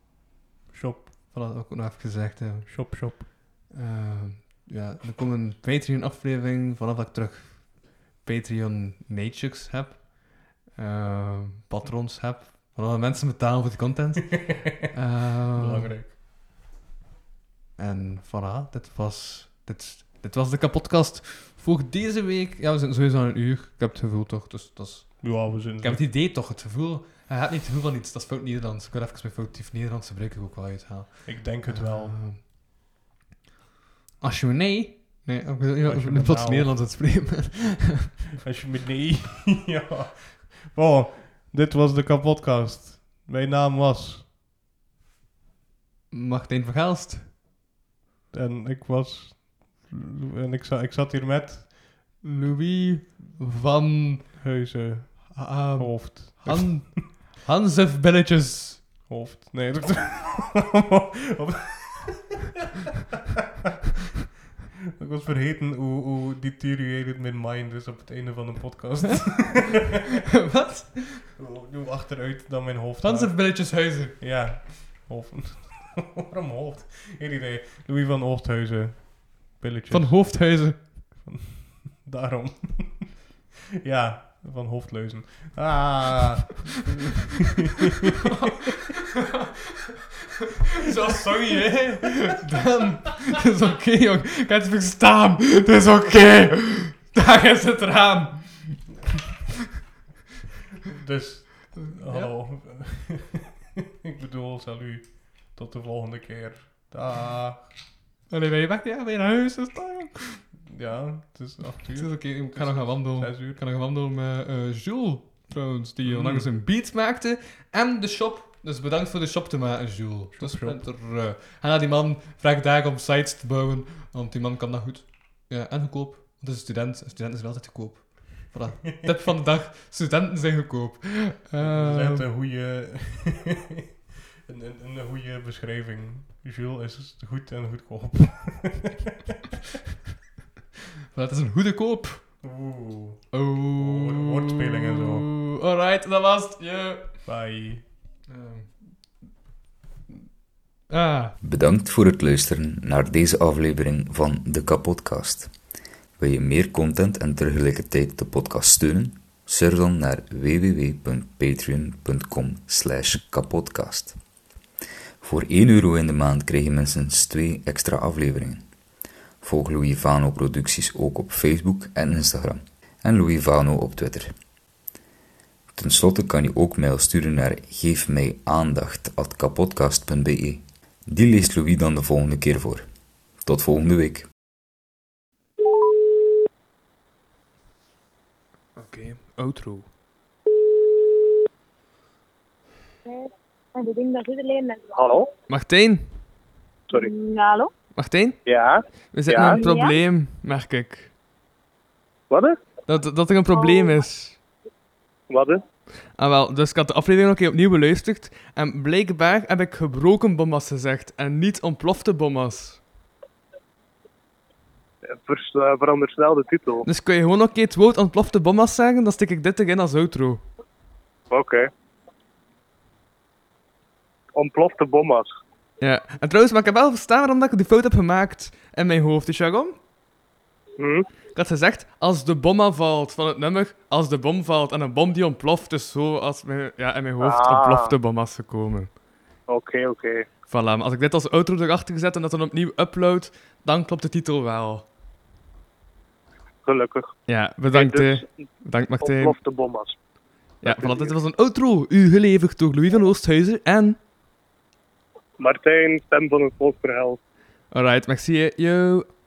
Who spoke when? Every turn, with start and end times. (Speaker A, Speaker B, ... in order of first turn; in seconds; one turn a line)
Speaker A: 0.7-1.1
Speaker B: 1.3-16.0
Speaker A: 2.6-3.3
Speaker A: 15.5-16.1
Speaker B: 17.8-32.4
Speaker A: 25.2-26.0
Speaker A: 31.2-32.2
Speaker B: 34.2-38.1
Speaker A: 35.8-36.9
Speaker A: 38.4-44.3
Speaker B: 46.1-47.3
Speaker A: 48.3-51.9
Speaker B: 52.2-54.4
Speaker A: 54.4-57.0
Speaker B: 55.3-58.8
Speaker A: 59.1-62.4
Speaker A: 65.0-69.8
Speaker B: 70.5-71.2
Speaker A: 71.4-83.2
Speaker B: 73.0-74.2
Speaker B: 79.9-80.9
Speaker A: 83.8-87.0
Speaker B: 90.8-98.9
Speaker A: 91.1-92.1
Speaker A: 100.9-103.4
Speaker B: 101.8-102.3
Speaker A: 104.0-107.7
Speaker B: 108.3-110.4
Speaker A: 110.7-113.6
Speaker B: 112.0-132.3
Speaker A: 116.0-116.5
Speaker A: 120.3-120.8
Speaker A: 131.6-133.6
Speaker A: 134.4-138.9
Speaker B: 141.1-142.4
Speaker A: 142.4-145.3
Speaker B: 143.3-147.3
Speaker A: 147.2-147.8
Speaker B: 148.3-149.1
Speaker B: 150.9-151.3
Speaker C: 151.4-155.5
Speaker C: 156.2-164.2
Speaker C: 165.2-168.7
Speaker C: 169.4-174.3
Speaker C: 175.7-184.3
Speaker B: 188.8-189.9
Speaker D: 193.1-194.9
Speaker E: 194.9-195.3
Speaker B: 195.5-196.1
Speaker D: 196.9-197.7
Speaker B: 197.9-198.4
Speaker E: 198.4-199.6
Speaker B: 199.1-201.1
Speaker D: 199.5-200.0
Speaker E: 202.3-202.6
Speaker B: 202.9-204.4
Speaker D: 203.6-203.8
Speaker E: 205.3-205.6
Speaker B: 206.1-212.8
Speaker E: 215.0-216.8
Speaker B: 216.8-220.4
Speaker E: 221.3-221.7
Speaker E: 224.3-225.3
Speaker B: 225.8-229.8
Speaker E: 230.8-231.1
Speaker B: 231.3-238.9
Speaker E: 237.2-237.9
Speaker E: 239.5-240.3
Speaker B: 240.5-244.9
Speaker E: 246.7-247.2
Speaker B: 247.3-249.3
Speaker E: 247.7-248.3
Speaker E: 249.0-249.9
Speaker E: 250.6-251.1
Speaker B: 250.6-254.0
Speaker E: 255.4-257.2
Speaker B: 257.7-259.1